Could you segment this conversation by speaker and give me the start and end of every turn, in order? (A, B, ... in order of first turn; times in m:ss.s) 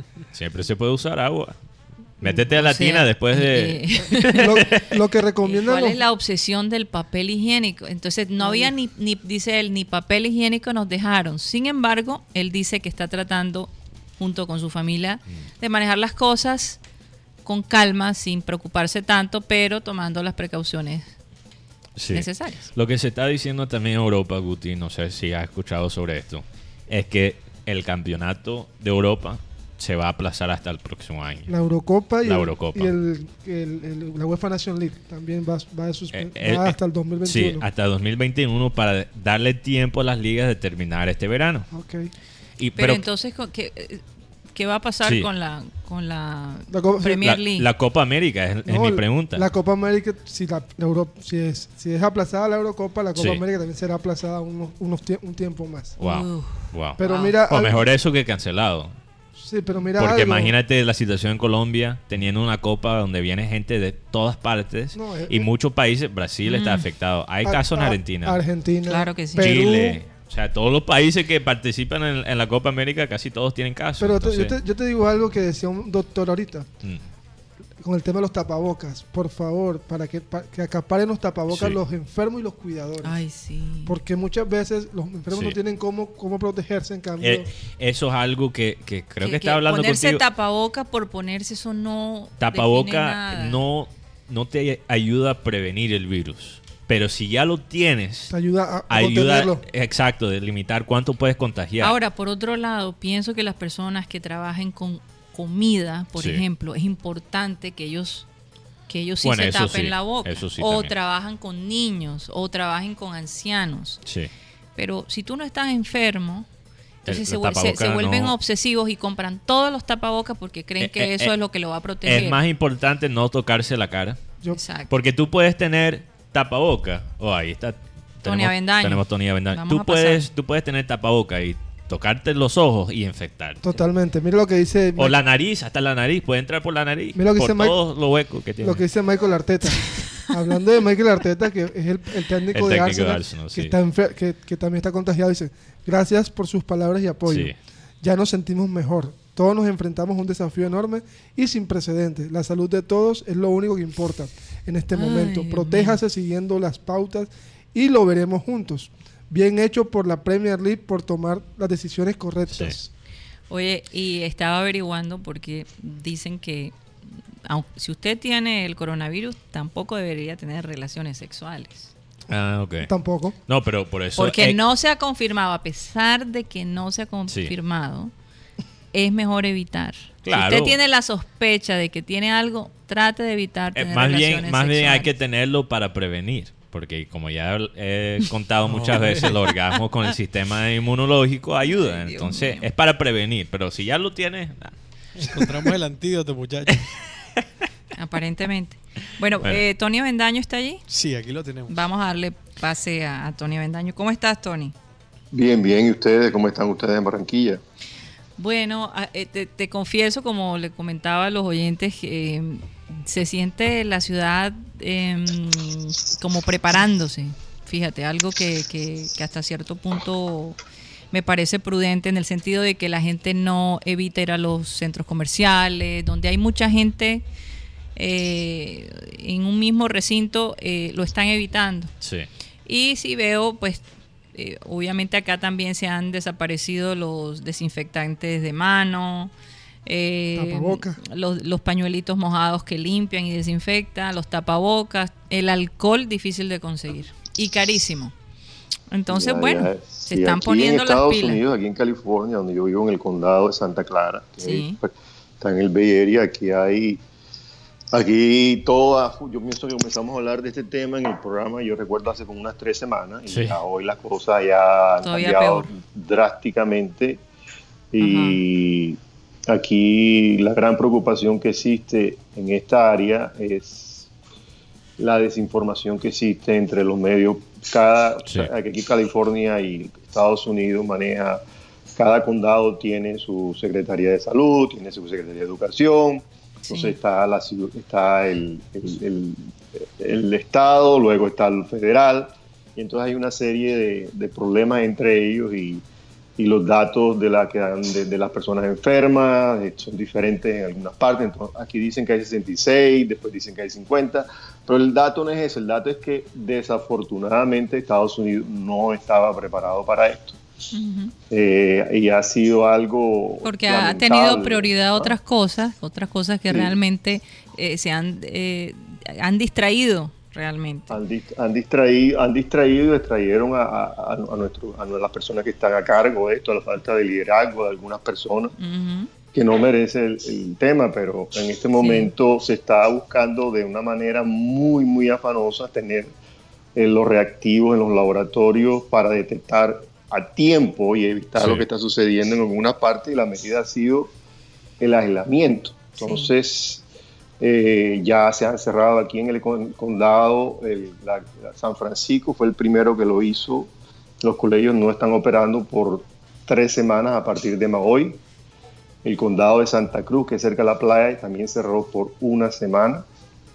0:00.3-0:01.6 A
0:02.2-0:04.8 A
0:02.5-0:04.8 B
0:04.3-0:06.0 C
0:05.4-0:16.8 B
0:17.4-0:21.1 B
0:22.0-0:31.5 A
0:22.1-0:22.7 B
0:31.5-0:37.7 C
0:32.2-0:32.9 A
0:36.1-0:41.7 A
0:41.7-0:42.1 C
0:42.6-0:43.0 A
0:42.8-0:44.0 B
0:44.5-0:47.7 B
0:46.7-0:47.2 C
0:47.2-0:49.4 A
0:48.6-0:56.0 C
0:53.1-0:53.4 A
0:56.0-0:59.0 A
0:56.0-0:57.3 B
0:57.0-0:57.7 C
0:59.4-1:00.5 C
1:00.0-1:08.4 A
1:04.9-1:05.5 C
1:06.4-1:06.8 B
1:07.4-1:10.0 C
1:08.8-1:09.6 B
1:09.4-1:14.6 A
1:14.0-1:16.7 C
1:17.8-1:23.2 C
1:21.5-1:21.8 A
1:23.0-1:23.9 B
1:23.8-1:27.5 C
1:25.3-1:25.6 A
1:27.2-1:30.2 A
1:29.2-1:33.6 B
1:32.4-1:38.3 A
1:38.3-1:39.6 C
1:38.9-1:41.9 A
1:41.8-1:48.2 B
1:46.2-1:46.4 A
1:48.9-1:54.0 B
1:49.2-1:50.9 A
1:54.8-1:56.5 B
1:57.0-1:58.3 A
1:57.0-2:02.4 B
2:00.8-2:01.3 A
2:02.0-2:04.2 A
2:04.5-2:04.9 B
2:04.9-2:13.6 A
2:08.2-2:10.2 B
2:13.6-2:15.2 C
2:15.0-2:18.8 A
2:17.1-2:17.8 C
2:18.6-2:42.9 C
2:22.5-2:23.7 A
2:27.3-2:27.5 A
2:34.9-2:36.0 B
2:43.5-2:46.8 B
2:47.4-2:51.9 B
2:52.3-2:52.9 A
2:52.8-2:53.4 C
2:53.5-2:54.6 A
2:54.2-2:58.1 B
2:58.9-3:05.1 B
3:00.2-3:00.8 A
3:03.7-3:15.7 A
3:08.7-3:09.3 D
3:11.6-3:12.6 B
3:15.2-3:16.8 D
3:17.9-3:20.8 B
3:20.9-3:21.7 D
3:21.7-3:24.7 B
3:25.3-3:27.6 E
3:28.4-3:40.6 B
3:41.1-3:47.2 B
3:48.0-3:51.9 B
3:52.0-3:52.3 A
3:52.6-3:59.3 B
3:59.8-4:08.1 B
4:00.3-4:01.0 C
4:08.9-4:11.4 B
4:09.1-4:17.0 E
4:14.4-4:14.8 B
4:17.9-4:27.2 E
4:23.3-4:23.6 A
4:25.0-4:25.7 B
4:27.9-4:34.1 E
4:28.0-4:28.4 B
4:35.0-4:41.4 E
4:41.9-4:55.8 E
4:46.6-4:46.9 B
4:56.4-5:10.4 E
5:10.7-5:11.1 B
5:11.3-5:15.1 E
5:13.4-5:21.0 B
5:16.5-5:16.7 E
5:20.9-5:28.5 E
5:28.6-5:29.1 B
5:29.3-5:36.1 E
5:31.8-5:32.1 B
5:36.8-5:44.1 E
5:41.4-5:41.6 A
5:44.8-5:46.8 E
5:46.0-5:46.3 B
5:47.4-5:58.2 E
5:59.0-6:03.0 E